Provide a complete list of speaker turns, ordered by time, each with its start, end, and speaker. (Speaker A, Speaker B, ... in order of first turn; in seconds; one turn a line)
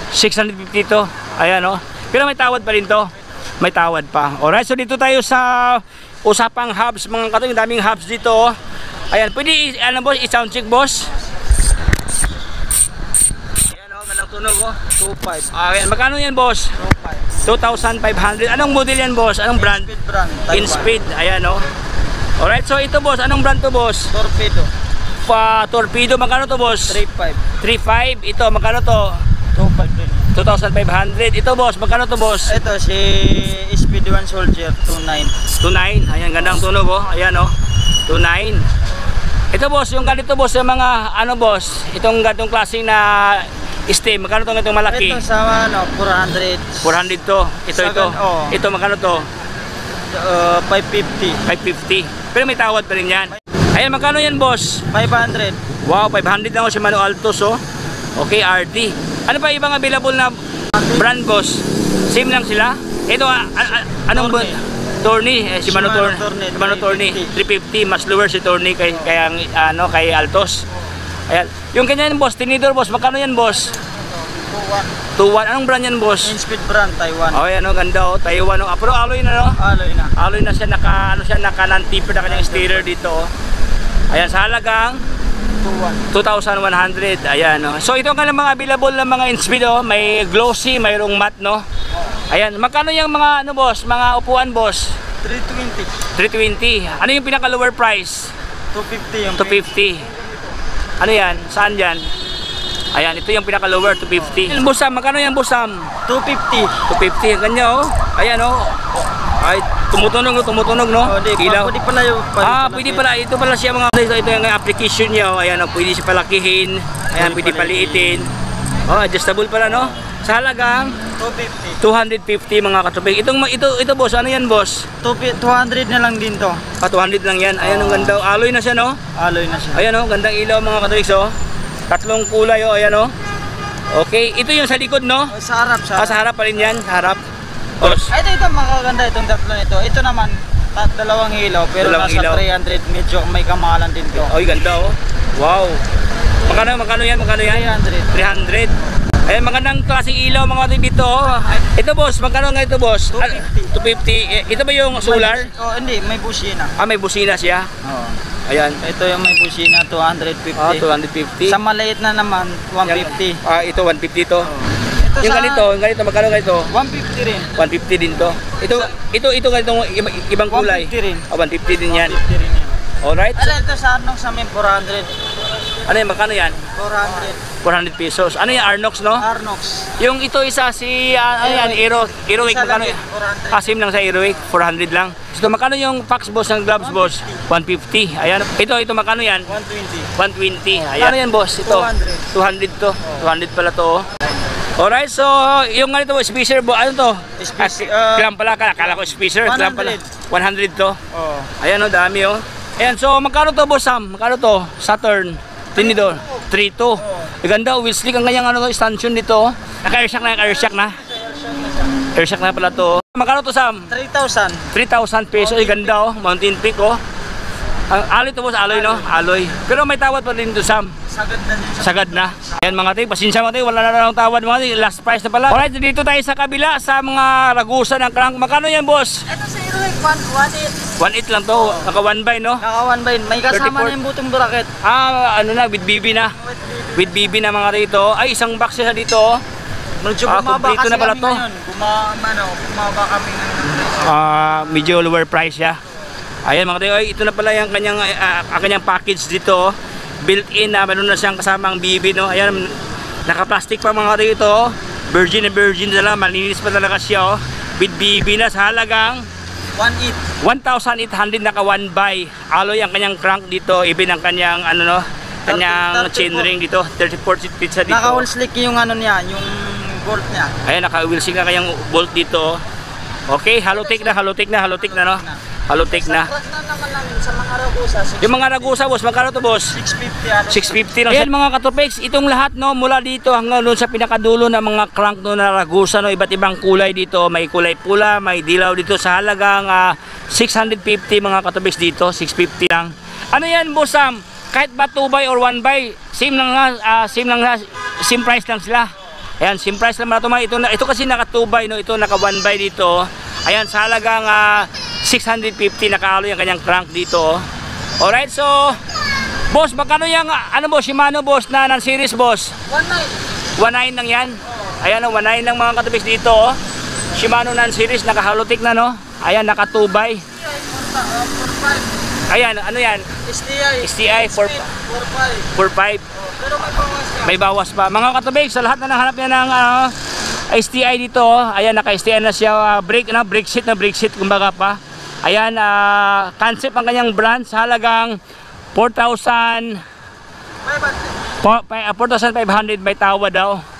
Speaker A: 0.1-8.6
Speaker A: 9.1-11.1
Speaker A: 13.6-14.9
Speaker B: 14.9-15.5
Speaker A: 15.5-16.7
Speaker B: 16.8-17.4
Speaker A: 17.4-19.9
Speaker B: 19.5-20.9
Speaker A: 20.5-21.6
Speaker A: 22.4-24.1
Speaker B: 24.1-24.7
Speaker A: 25.2-27.0
Speaker B: 26.9-27.4
Speaker A: 27.6-29.2
Speaker B: 29.5-30.3
Speaker A: 30.3-32.6
Speaker B: 32.4-35.4
Speaker A: 35.6-37.5
Speaker A: 38.1-38.6
Speaker A: 39.5-45.2
Speaker B: 44.9-46.9
Speaker A: 46.8-49.2
Speaker B: 47.7-48.5
Speaker B: 50.1-51.4
Speaker A: 51.5-54.8
Speaker B: 54.9-55.6
Speaker A: 55.9-57.6
Speaker A: 58.2-60.4
Speaker B: 60.8-61.0
Speaker A: 60.9-70.6
Speaker B: 64.1-64.5
Speaker B: 65.6-67.3
Speaker A: 71.3-73.7
Speaker B: 73.5-74.9
Speaker A: 75.2-76.3
Speaker B: 76.2-77.4
Speaker A: 77.3-79.6
Speaker B: 79.6-80.1
Speaker A: 80.2-83.3
Speaker B: 82.2-83.0
Speaker A: 84.1-85.0
Speaker B: 85.6-86.1
Speaker A: 86.1-91.6
Speaker A: 92.3-94.9
Speaker B: 95.2-95.9
Speaker A: 96.1-98.3
Speaker B: 98.7-99.7
Speaker A: 99.3-100.1
Speaker A: 101.0-102.0
Speaker A: 102.9-105.9
Speaker B: 106.1-106.8
Speaker A: 106.9-111.7
Speaker B: 111.0-113.0
Speaker A: 112.4-118.3
Speaker B: 117.1-118.2
Speaker A: 118.9-121.0
Speaker B: 121.2-121.8
Speaker A: 121.8-124.8
Speaker B: 125.0-126.6
Speaker A: 126.8-129.0
Speaker B: 127.6-128.2
Speaker B: 129.2-129.8
Speaker A: 129.7-131.3
Speaker A: 131.9-133.1
Speaker A: 133.9-135.3
Speaker B: 135.3-136.2
Speaker A: 135.9-137.2
Speaker A: 137.8-138.1
Speaker B: 137.8-144.3
Speaker A: 141.8-142.4
Speaker A: 144.2-145.8
Speaker A: 146.4-148.7
Speaker B: 147.4-148.2
Speaker A: 149.2-155.5
Speaker B: 153.1-153.7
Speaker B: 154.9-156.7
Speaker A: 156.8-157.7
Speaker B: 157.8-158.2
Speaker A: 158.4-158.8
Speaker B: 158.8-160.9
Speaker A: 160.6-161.6
Speaker B: 161.4-163.4
Speaker A: 162.8-164.5
Speaker B: 164.5-165.7
Speaker A: 165.2-166.7
Speaker B: 166.7-167.5
Speaker A: 167.5-172.2
Speaker B: 170.5-171.3
Speaker B: 171.9-172.8
Speaker A: 173.0-173.6
Speaker B: 173.3-175.3
Speaker A: 175.8-176.6
Speaker B: 176.6-177.5
Speaker A: 177.6-179.2
Speaker B: 179.2-179.9
Speaker A: 180.0-183.0
Speaker B: 181.4-183.8
Speaker A: 183.5-189.5
Speaker B: 186.8-187.4
Speaker B: 189.5-190.1
Speaker A: 190.1-194.0
Speaker B: 190.9-192.3
Speaker A: 194.8-201.0
Speaker B: 197.4-198.3
Speaker B: 198.8-200.1
Speaker B: 201.1-201.5
Speaker A: 201.6-211.0
Speaker B: 205.7-206.4
Speaker B: 210.8-212.0
Speaker A: 212.1-213.9
Speaker B: 213.9-214.6
Speaker A: 214.7-217.0
Speaker B: 215.4-216.0
Speaker A: 217.9-220.9
Speaker B: 218.7-219.1
Speaker B: 221.1-222.6
Speaker A: 221.8-229.2
Speaker B: 229.3-230.9
Speaker A: 231.0-232.6
Speaker B: 231.5-231.9
Speaker B: 232.6-234.7
Speaker A: 233.5-233.9
Speaker A: 234.8-236.3
Speaker B: 236.1-237.3
Speaker A: 236.9-239.4
Speaker B: 240.0-244.1
Speaker A: 240.2-241.4
Speaker A: 243.9-245.8
Speaker A: 246.4-252.7
Speaker A: 253.2-259.2
Speaker B: 259.8-260.2
Speaker A: 260.4-268.3
Speaker B: 265.5-266.5
Speaker B: 267.9-270.5
Speaker A: 270.6-272.6
Speaker A: 273.3-276.3
Speaker B: 273.7-278.8
Speaker A: 278.2-279.7
Speaker B: 279.7-281.0
Speaker A: 280.5-307.4
Speaker A: 308.0-308.8
Speaker A: 309.5-312.5
Speaker B: 312.7-313.1
Speaker A: 313.6-316.6
Speaker B: 314.5-314.8
Speaker A: 317.1-320.2
Speaker B: 320.4-321.9
Speaker A: 322.3-323.0
Speaker B: 323.2-325.5
Speaker A: 323.8-324.6
Speaker A: 325.5-326.0
Speaker B: 326.1-327.4
Speaker A: 327.2-329.9
Speaker A: 330.5-338.2
Speaker A: 338.7-339.8
Speaker B: 340.6-341.2
Speaker A: 341.4-343.6